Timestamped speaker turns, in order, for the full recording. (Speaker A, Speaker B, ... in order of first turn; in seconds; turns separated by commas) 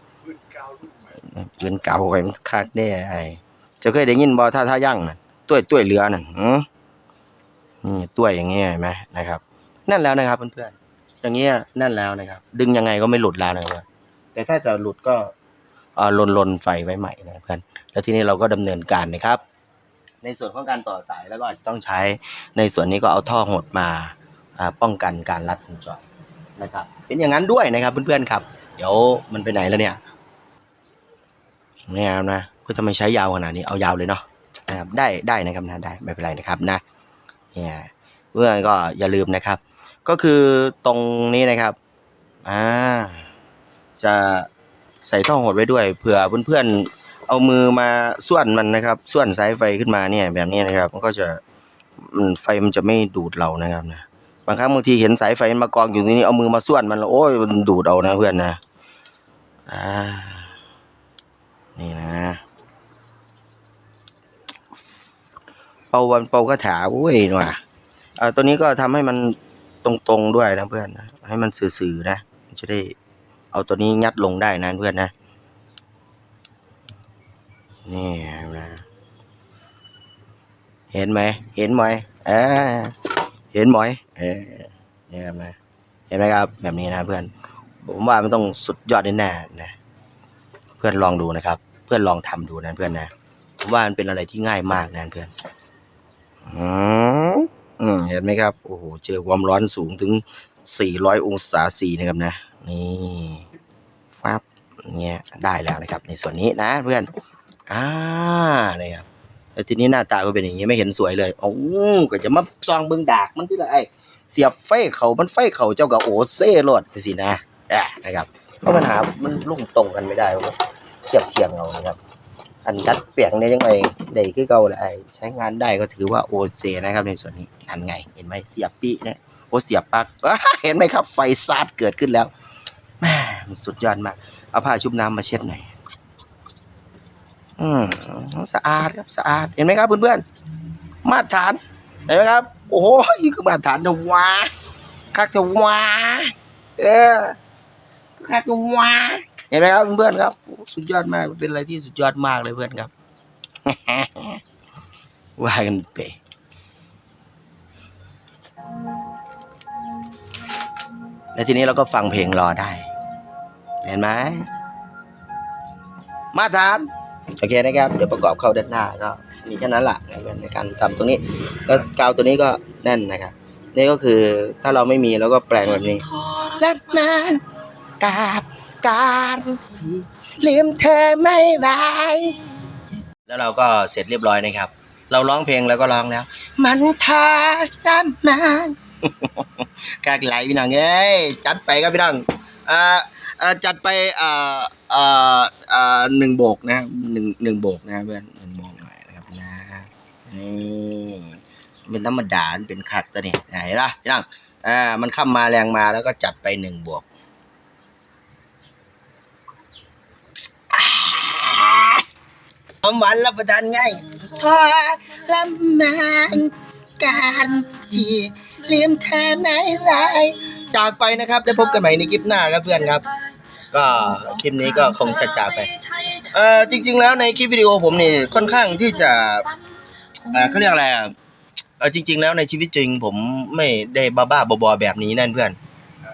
Speaker A: 1.1-6.7, Speaker A: 7.8-15.3, Speaker A: 15.9-19.4, Speaker A: 20.2-26.0, Speaker A: 26.6-30.0, Speaker A: 31.9-36.8, Speaker A: 37.5-41.8, Speaker A: 42.4-43.3, Speaker A: 44.0-44.5, Speaker A: 45.0-51.4, Speaker A: 52.0-58.6, Speaker A: 59.7-60.5, Speaker A: 61.8-62.4, Speaker A: 65.9-67.6, Speaker A: 68.2-73.0, Speaker A: 73.5-75.1, Speaker A: 77.8-78.8, Speaker A: 80.9-85.5, Speaker A: 86.1-87.3, Speaker A: 87.8-89.7, Speaker A: 90.8-95.3, Speaker A: 96.5-103.5, Speaker A: 104.1-107.1, Speaker A: 107.7-120.5, Speaker A: 121.1-122.0, Speaker A: 122.6-132.3, Speaker A: 133.0-135.7, Speaker A: 137.6-140.2, Speaker A: 141.0-144.5, Speaker A: 145.1-147.3, Speaker A: 148.2-152.9, Speaker A: 153.7-154.4, Speaker A: 155.4-156.2, Speaker A: 161.3-162.9, Speaker A: 163.8-164.4, Speaker A: 166.3-166.9, Speaker A: 167.4-177.4, Speaker A: 178.0-182.4, Speaker A: 183.1-207.1, Speaker A: 210.7-212.0, Speaker A: 212.8-229.5, Speaker A: 230.2-231.1, Speaker A: 231.8-235.6